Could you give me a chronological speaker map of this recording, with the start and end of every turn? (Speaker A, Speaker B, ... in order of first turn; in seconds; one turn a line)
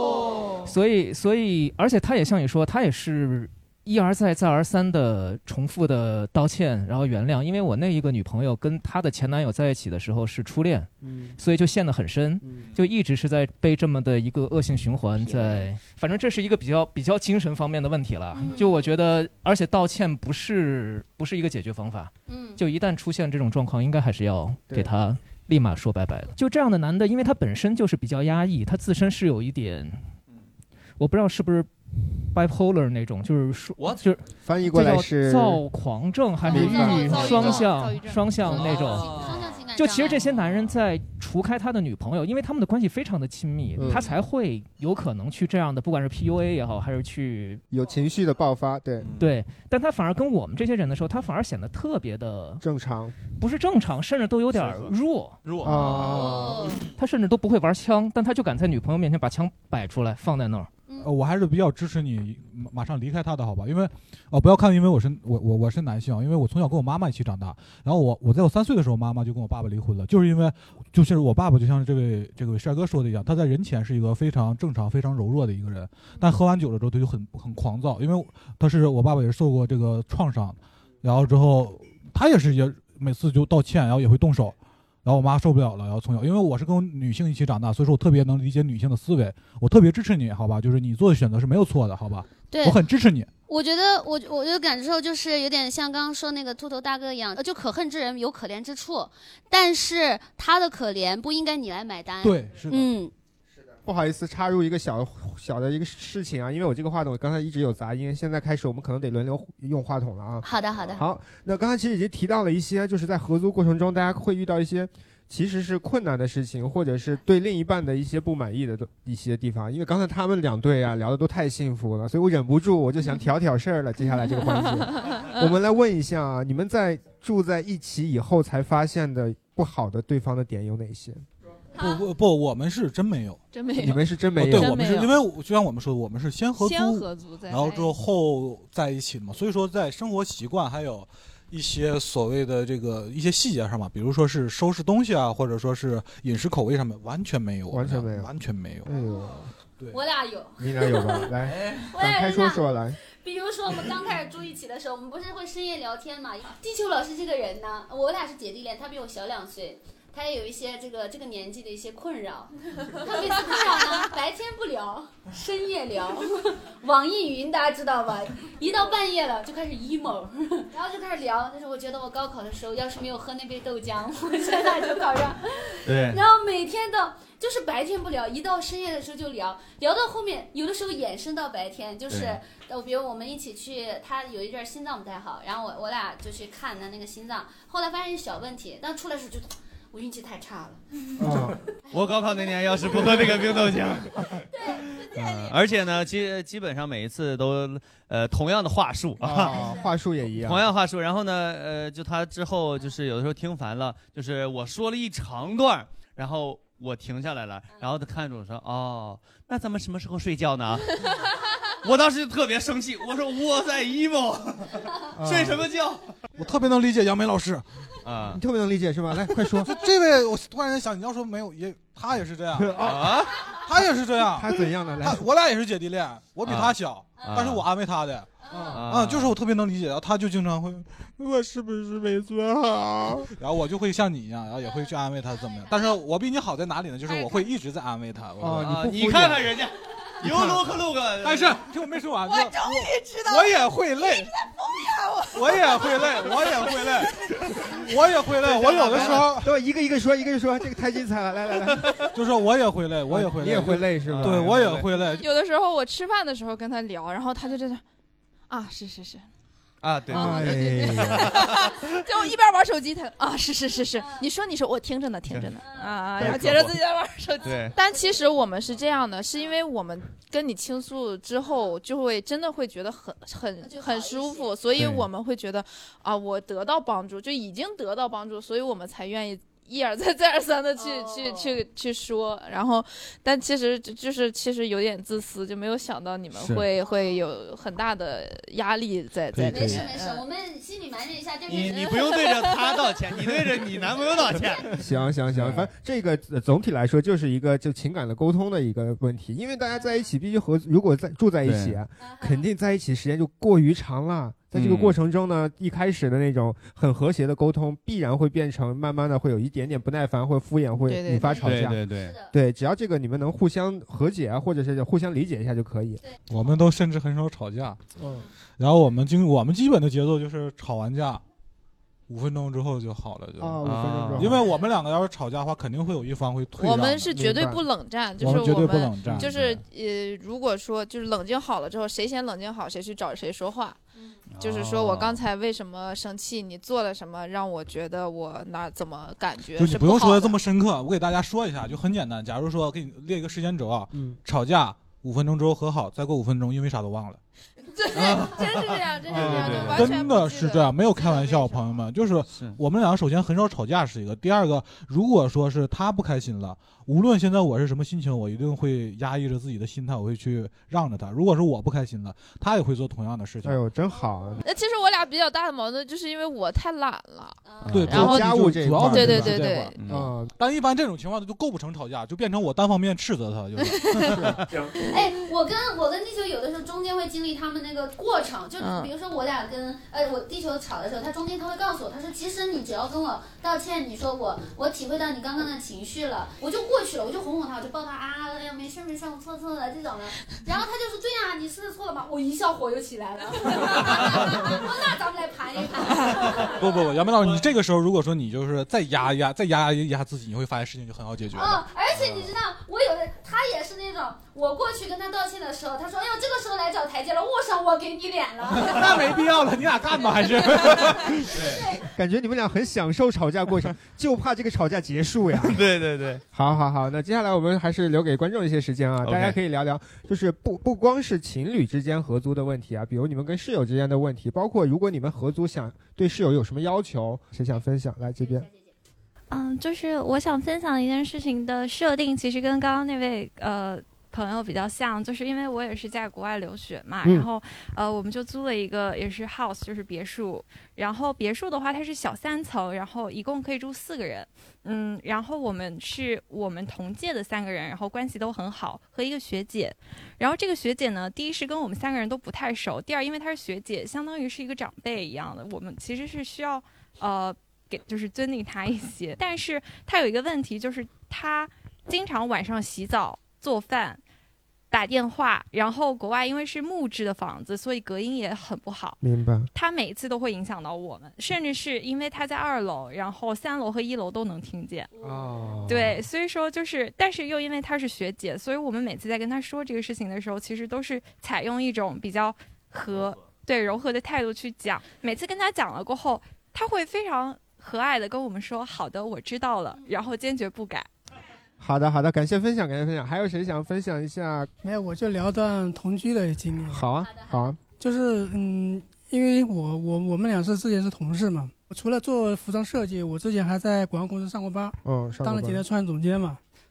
Speaker A: 0.6-30.0
Speaker B: 11.0-11.4
Speaker B: 12.4-12.7
Speaker C: 18.3-18.7
Speaker C: 22.3-22.6
Speaker A: 31.0-31.7
Speaker A: 32.2-47.6
Speaker B: 34.4-35.6
Speaker B: 36.4-37.6
Speaker D: 36.4-38.4
Speaker C: 37.0-37.6
Speaker E: 38.4-39.6
Speaker C: 38.5-40.3
Speaker B: 43.8-44.0
Speaker B: 47.7-49.1
Speaker E: 49.0-49.3
Speaker A: 49.2-52.6
Speaker B: 52.6-53.1
Speaker A: 53.4-55.4
Speaker E: 54.5-54.9
Speaker E: 55.4-56.5
Speaker B: 55.6-56.8
Speaker C: 55.8-56.8
Speaker A: 56.9-60.7
Speaker F: 61.0-93.3
Speaker C: 92.5-92.8
Speaker C: 93.5-103.1
Speaker F: 102.2-102.9
Speaker B: 103.8-131.2
Speaker C: 110.4-111.0
Speaker D: 124.5-125.5
Speaker F: 131.8-148.9
Speaker D: 133.5-135.2
Speaker B: 133.8-134.8
Speaker D: 136.6-137.9
Speaker B: 147.7-148.3
Speaker B: 148.8-149.5
Speaker C: 148.9-149.2
Speaker C: 149.9-151.3
Speaker B: 150.6-153.0
Speaker C: 151.9-190.8
Speaker E: 175.8-176.2
Speaker E: 182.1-182.4
Speaker B: 191.2-191.6
Speaker E: 191.9-194.4
Speaker C: 194.5-195.5
Speaker B: 195.2-195.5
Speaker E: 195.2-199.6
Speaker B: 199.2-200.7
Speaker C: 199.4-199.8
Speaker E: 200.3-211.1
Speaker E: 211.7-216.0
Speaker B: 215.1-215.7
Speaker F: 216.4-217.6
Speaker E: 218.0-218.4
Speaker B: 218.3-219.7
Speaker F: 219.5-228.3
Speaker B: 222.6-223.3
Speaker E: 222.8-223.3
Speaker B: 224.3-225.2
Speaker E: 226.4-227.6
Speaker C: 228.4-228.8
Speaker B: 228.5-228.8
Speaker E: 228.7-229.3
Speaker F: 228.8-231.1
Speaker B: 231.2-233.3
Speaker F: 233.4-239.2
Speaker C: 234.6-236.0
Speaker C: 237.1-237.5
Speaker B: 238.4-239.5
Speaker E: 238.6-241.6
Speaker B: 240.2-240.6
Speaker F: 241.2-244.3
Speaker F: 245.3-247.1
Speaker F: 247.7-249.5
Speaker E: 248.5-249.2
Speaker B: 248.7-252.1
Speaker F: 252.1-255.2
Speaker B: 253.1-254.8
Speaker E: 254.1-254.8
Speaker D: 255.1-257.8
Speaker D: 258.5-259.2
Speaker E: 259.8-261.5
Speaker B: 260.1-261.3
Speaker D: 260.1-290.2
Speaker C: 265.6-265.9
Speaker B: 266.2-266.6
Speaker E: 266.2-266.7
Speaker E: 267.4-267.7
Speaker C: 273.6-274.5
Speaker C: 280.8-281.5
Speaker B: 286.4-286.6
Speaker C: 286.8-287.0
Speaker B: 289.3-289.9
Speaker C: 289.4-292.4
Speaker E: 291.5-294.8
Speaker B: 294.8-316.0
Speaker E: 295.3-295.6
Speaker E: 301.4-301.8
Speaker C: 302.0-302.4
Speaker E: 304.5-304.9
Speaker D: 310.8-311.4
Speaker C: 311.2-312.3
Speaker E: 311.4-312.1
Speaker C: 316.0-316.5
Speaker F: 316.3-317.8
Speaker B: 318.0-318.2
Speaker F: 318.6-321.2
Speaker F: 322.1-323.6
Speaker B: 323.4-324.5
Speaker E: 323.6-324.4
Speaker F: 324.1-327.1
Speaker D: 326.6-333.8
Speaker B: 327.1-327.6
Speaker F: 328.2-329.6
Speaker E: 334.3-335.2
Speaker D: 334.4-340.4
Speaker F: 339.6-347.2
Speaker B: 343.9-344.2
Speaker D: 347.7-351.8
Speaker E: 349.1-350.0
Speaker B: 349.1-349.8
Speaker F: 349.3-363.6
Speaker E: 352.3-352.6
Speaker B: 363.4-364.4
Speaker D: 364.4-369.8
Speaker C: 367.4-367.9
Speaker E: 367.6-367.9
Speaker F: 367.7-369.7
Speaker B: 367.9-370.3
Speaker E: 369.8-370.1
Speaker F: 370.4-374.4
Speaker C: 374.8-396.9
Speaker D: 378.6-378.9
Speaker F: 396.5-401.6
Speaker C: 401.3-409.4
Speaker F: 408.5-411.2
Speaker C: 409.9-411.8
Speaker E: 411.3-411.6
Speaker B: 411.9-415.6
Speaker E: 415.4-416.2
Speaker B: 416.3-428.5
Speaker E: 419.0-419.4
Speaker C: 428.2-428.7
Speaker G: 429.3-464.0
Speaker B: 437.0-437.3
Speaker G: 464.7-469.0
Speaker B: 469.0-469.5
Speaker G: 469.5-474.9
Speaker C: 474.9-475.6
Speaker B: 475.0-476.0
Speaker G: 475.7-490.9
Speaker E: 482.9-483.2
Speaker B: 491.6-494.5
Speaker H: 494.6-496.9
Speaker B: 496.7-497.6
Speaker C: 497.0-497.5
Speaker H: 497.8-506.4
Speaker B: 504.8-505.6